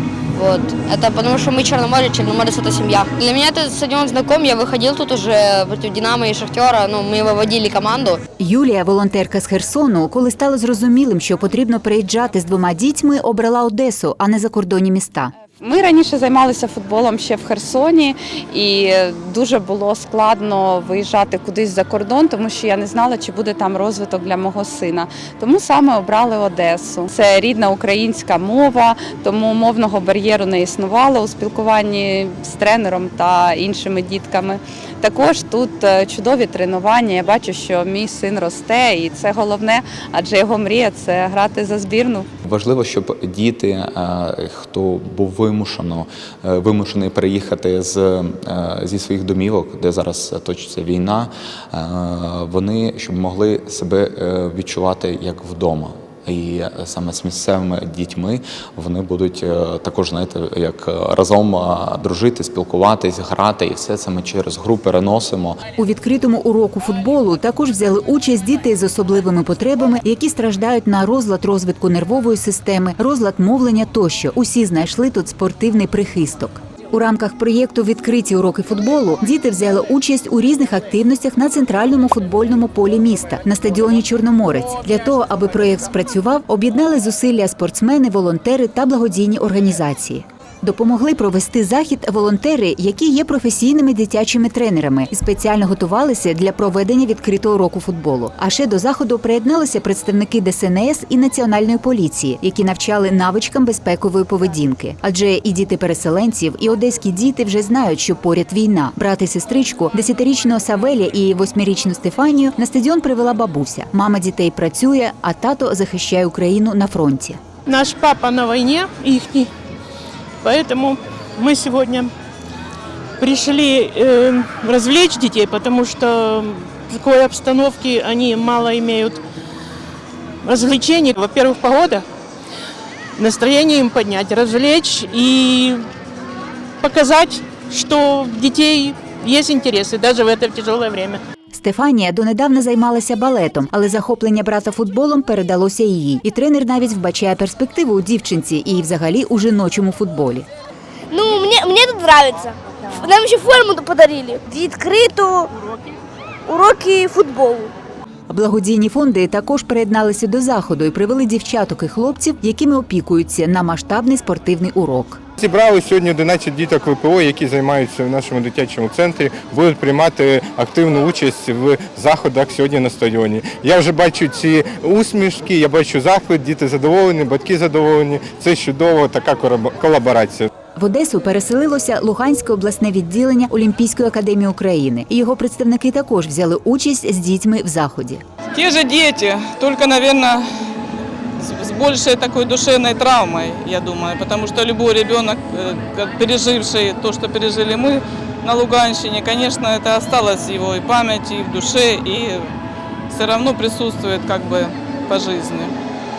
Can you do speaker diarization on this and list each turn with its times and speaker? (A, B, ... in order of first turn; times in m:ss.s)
0:00.3-0:08.2 A
0:08.4-0:15.3 B
0:15.6-0:42.2 C
0:42.4-1:05.6 D
1:05.8-1:57.4 B
1:57.6-1:59.5 E
2:00.4-2:02.1 E
2:03.2-2:09.2 E
2:10.4-2:12.0 E
2:13.2-2:15.8 E
2:16.8-2:21.2 E
2:21.5-2:30.5 B
2:31.1-2:35.5 F
2:36.5-2:37.7 F
2:38.3-2:45.2 B
2:45.4-3:00.5 G
3:00.8-3:08.2 B
3:08.5-3:10.4 H
3:11.4-3:22.5 H
3:23.1-3:25.7 H